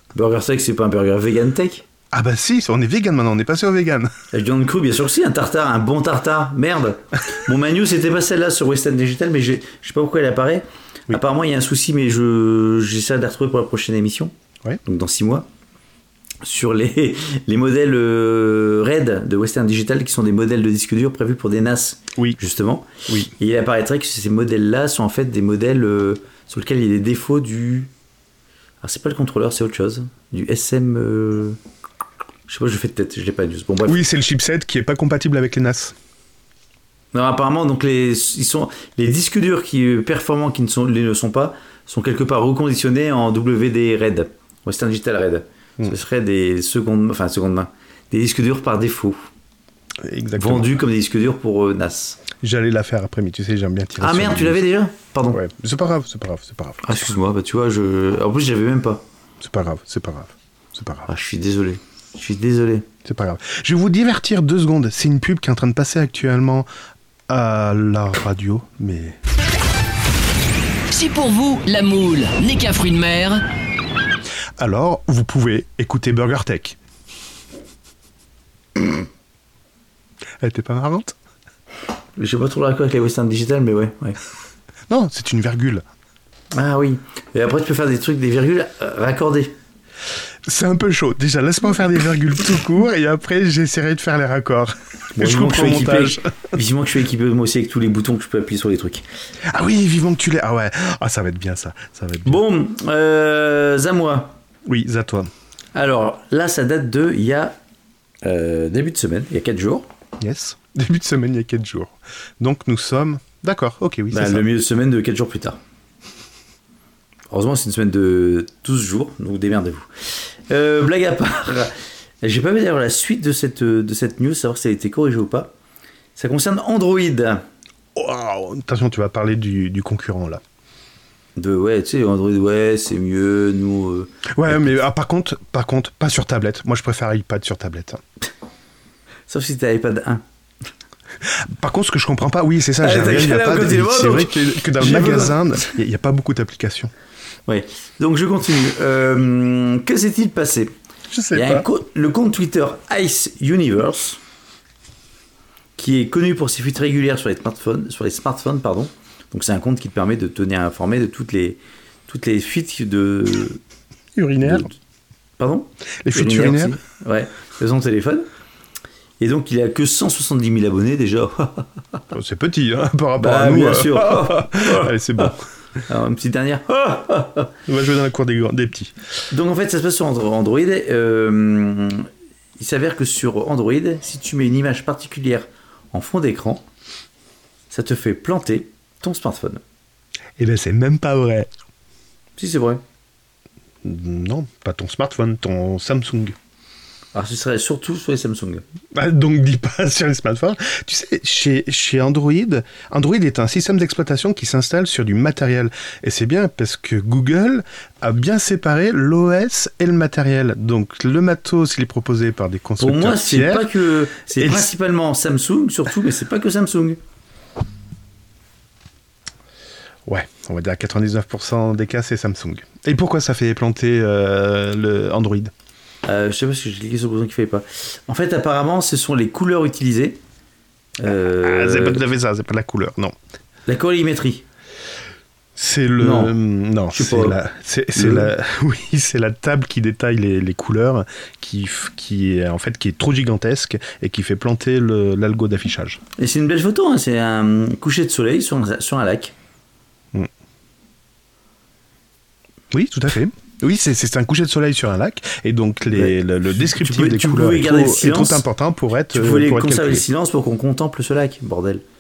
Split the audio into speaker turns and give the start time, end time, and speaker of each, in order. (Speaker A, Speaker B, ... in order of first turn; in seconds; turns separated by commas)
Speaker A: 0.1-1.9, Speaker B: 2.1-4.1, Speaker A: 4.3-14.3, Speaker A: 14.8-15.5, Speaker A: 16.4-27.9, Speaker A: 28.8-31.6, Speaker A: 32.5-34.0, Speaker B: 33.9-36.0, Speaker A: 37.1-49.3, Speaker B: 50.0-50.8, Speaker A: 50.4-52.2, Speaker B: 52.4-54.6, Speaker A: 54.0-55.4, Speaker B: 55.3-57.0, Speaker A: 56.8-59.0, Speaker B: 59.4-61.1, Speaker A: 61.1-62.9, Speaker B: 63.0-66.7, Speaker B: 67.3-69.2, Speaker C: 70.9-73.4, Speaker B: 74.6-76.8, Speaker B: 80.4-81.2, Speaker A: 82.2-84.2, Speaker B: 84.9-85.8, Speaker A: 86.5-89.5, Speaker B: 90.5-96.3, Speaker A: 95.2-99.0, Speaker B: 99.5-102.4, Speaker A: 102.2-104.4, Speaker B: 104.7-105.3, Speaker A: 105.7-107.6, Speaker A: 108.2-109.9, Speaker B: 110.2-114.5, Speaker A: 114.1-115.6, Speaker A: 117.3-125.5, Speaker A: 126.2-127.4, Speaker B: 128.0-130.4, Speaker A: 131.4-134.8, Speaker B: 134.3-138.0, Speaker A: 139.3-140.2, Speaker B: 141.2-146.9, Speaker A: 142.8-145.7, Speaker A: 147.5-150.7, Speaker B: 151.1-151.7, Speaker A: 151.3-154.2, Speaker A: 155.8-163.6, Speaker B: 164.2-164.7, Speaker A: 164.4-164.7, Speaker A: 165.4-168.3, Speaker B: 166.0-166.8, Speaker A: 169.2-172.0, Speaker B: 172.1-175.4, Speaker A: 173.2-175.3, Speaker A: 175.9-177.5, Speaker B: 177.7-178.9, Speaker A: 179.3-186.6, Speaker A: 187.7-189.6, Speaker B: 190.4-191.5, Speaker A: 192.4-192.8, Speaker B: 193.8-196.3, Speaker A: 197.1-198.7, Speaker B: 198.9-213.7, Speaker A: 212.8-217.0, Speaker B: 214.3-214.7, Speaker B: 220.1-225.5, Speaker A: 226.0-230.2, Speaker A: 231.0-232.1, Speaker B: 231.3-233.2, Speaker A: 233.7-234.4, Speaker B: 235.6-246.0, Speaker A: 236.0-236.4, Speaker A: 236.9-237.4, Speaker A: 238.0-238.3, Speaker A: 246.2-249.3, Speaker B: 252.7-260.1, Speaker A: 255.9-258.5, Speaker A: 259.1-261.8